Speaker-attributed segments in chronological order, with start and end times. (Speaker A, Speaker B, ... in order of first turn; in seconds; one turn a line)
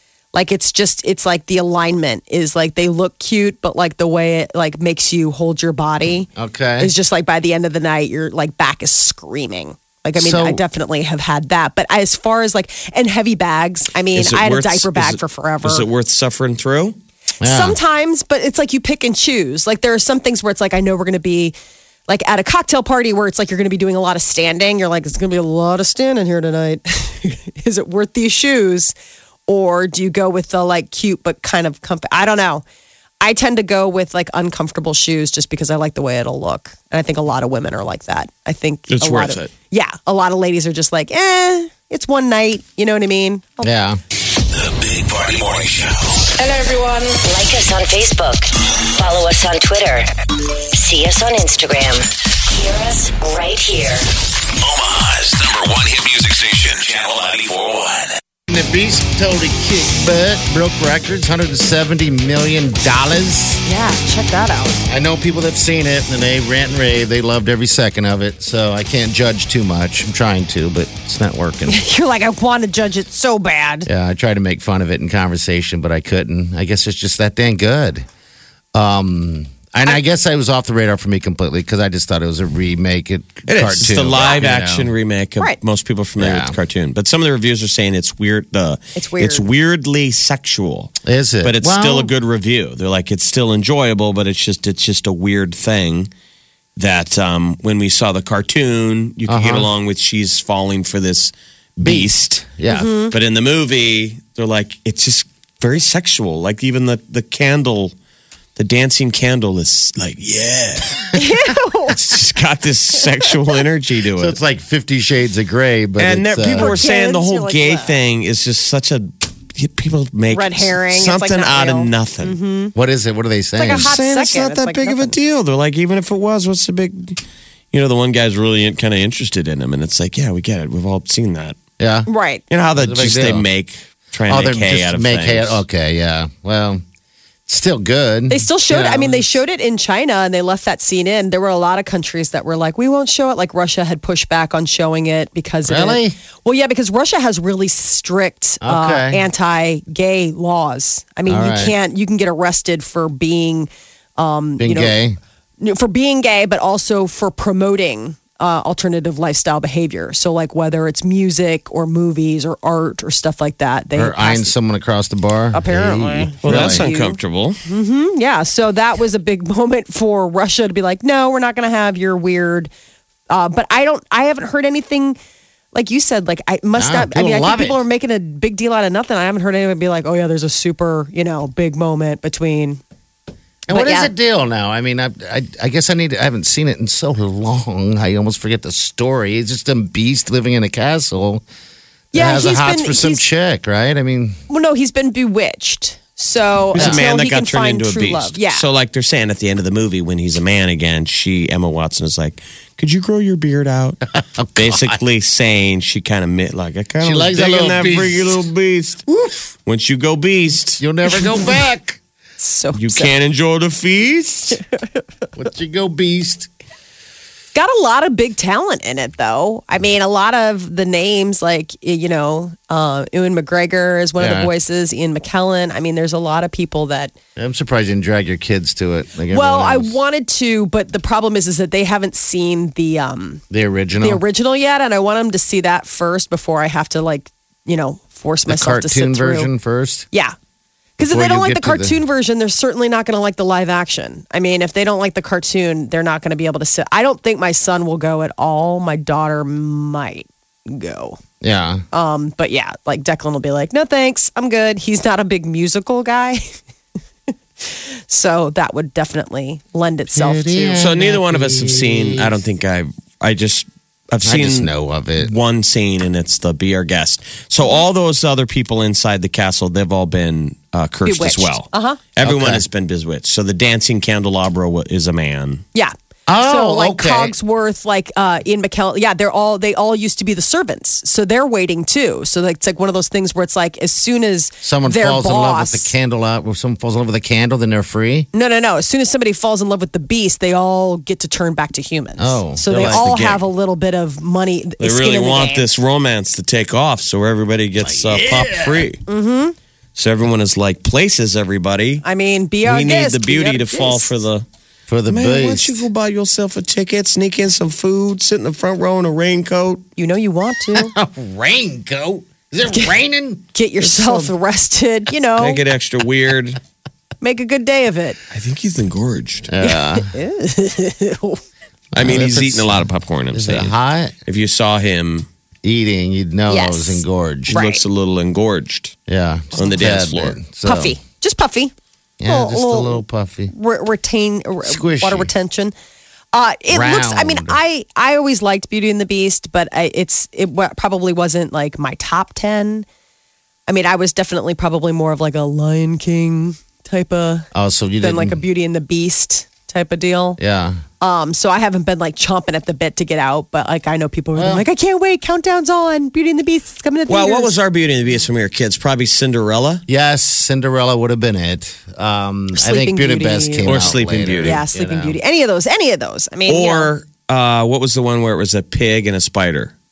Speaker A: 0.3-15.8
Speaker B: 6.3-6.9
Speaker B: 10.2-10.6
Speaker C: 14.1-16.9
Speaker B: 17.4-17.8
Speaker A: 17.4-21.5
Speaker A: 22.1-28.9
Speaker A: 29.5-32.6
Speaker A: 33.2-43.7
Speaker C: 38.9-39.5
Speaker B: 43.6-44.0
Speaker D: 44.4-46.3
Speaker E: 46.4-50.1
Speaker E: 50.7-54.1
Speaker D: 54.5-58.1
Speaker B: 58.5-63.6
Speaker A: 63.6-64.8
Speaker B: 64.8-71.8
Speaker A: 71.7-73.9
Speaker B: 73.8-78.0
Speaker B: 78.7-84.9
Speaker C: 83.5-96.1
Speaker A: 84.2-84.4
Speaker B: 86.2-86.5
Speaker A: 88.9-89.4
Speaker B: 91.0-92.1
Speaker C: 96.8-102.5
Speaker B: 99.3-99.7
Speaker B: 101.8-103.0
Speaker A: 102.7-103.1
Speaker C: 103.1-107.9
Speaker C: 108.5-111.2
Speaker A: 111.1-112.0
Speaker C: 112.0-114.4
Speaker B: 114.1-116.8
Speaker C: 116.0-122.4
Speaker A: 116.6-118.0
Speaker A: 120.3-122.7
Speaker B: 122.8-123.9
Speaker A: 123.6-125.1
Speaker C: 123.7-127.2
Speaker C: 127.7-131.6
Speaker B: 131.8-132.1
Speaker A: 132.1-132.4
Speaker C: 132.5-135.6
Speaker B: 132.8-133.4
Speaker B: 134.3-136.8
Speaker B: 137.5-139.4
Speaker A: 138.3-154.9
Speaker B: 145.7-146.2
Speaker B: 148.6-149.2
Speaker B: 151.2-151.8
Speaker B: 154.6-155.2
Speaker A: 155.6-164.5
Speaker B: 163.9-166.8
Speaker A: 165.5-172.7
Speaker C: 166.4-167.6
Speaker A: 173.3-175.2
Speaker A: 175.7-182.8
Speaker B: 176.8-177.8
Speaker B: 183.7-191.4
Speaker A: 183.7-184.1
Speaker A: 192.1-193.2
Speaker B: 192.1-194.4
Speaker A: 194.5-198.7
Speaker C: 196.7-204.0
Speaker B: 196.8-197.0
Speaker B: 204.2-205.0
Speaker C: 204.5-209.0
Speaker B: 207.0-208.4
Speaker C: 209.7-210.8
Speaker B: 210.8-212.0
Speaker A: 212.4-213.1
Speaker C: 212.8-214.6
Speaker B: 215.3-216.5
Speaker A: 217.5-227.1
Speaker B: 224.2-224.5
Speaker B: 227.3-230.0
Speaker A: 229.3-233.4
Speaker B: 233.5-234.2
Speaker A: 234.0-239.5
Speaker B: 238.5-240.1
Speaker A: 241.0-251.2
Speaker B: 241.0-242.0
Speaker B: 251.4-251.8
Speaker A: 251.9-256.4
Speaker A: 257.6-260.9
Speaker B: 260.1-262.4
Speaker C: 260.8-275.6
Speaker B: 264.2-265.3
Speaker A: 271.0-272.0
Speaker B: 272.2-272.6
Speaker A: 275.7-285.9
Speaker B: 276.3-277.4
Speaker B: 284.6-288.3
Speaker A: 288.3-295.7
Speaker B: 292.2-293.1
Speaker C: 292.7-293.4
Speaker C: 294.8-299.0
Speaker B: 297.8-298.9
Speaker A: 299.1-299.5
Speaker C: 299.9-302.0
Speaker A: 302.0-304.1
Speaker C: 302.6-304.4
Speaker B: 304.9-305.9
Speaker C: 305.1-309.9
Speaker A: 310.0-310.9
Speaker B: 310.7-314.3
Speaker A: 312.6-312.9
Speaker A: 313.5-315.6
Speaker C: 315.4-316.6
Speaker A: 317.2-318.2
Speaker C: 318.3-319.5
Speaker B: 319.5-320.1
Speaker A: 319.6-321.4
Speaker B: 321.9-324.1
Speaker C: 321.9-323.7
Speaker C: 324.2-325.3
Speaker B: 325.6-327.6
Speaker A: 326.5-327.8
Speaker C: 327.5-328.9
Speaker B: 329.1-331.0
Speaker C: 329.6-330.4
Speaker A: 330.6-331.7
Speaker B: 332.2-333.5
Speaker A: 332.2-335.7
Speaker B: 334.6-335.3
Speaker A: 336.3-342.9
Speaker B: 336.7-337.6
Speaker A: 343.7-347.5
Speaker B: 347.5-348.4
Speaker A: 348.0-350.4
Speaker B: 350.4-350.8
Speaker A: 351.0-357.5
Speaker B: 354.4-354.6
Speaker C: 357.1-359.8
Speaker B: 359.9-365.2
Speaker A: 362.5-363.8
Speaker C: 363.6-364.6
Speaker A: 364.4-366.9
Speaker C: 366.5-369.7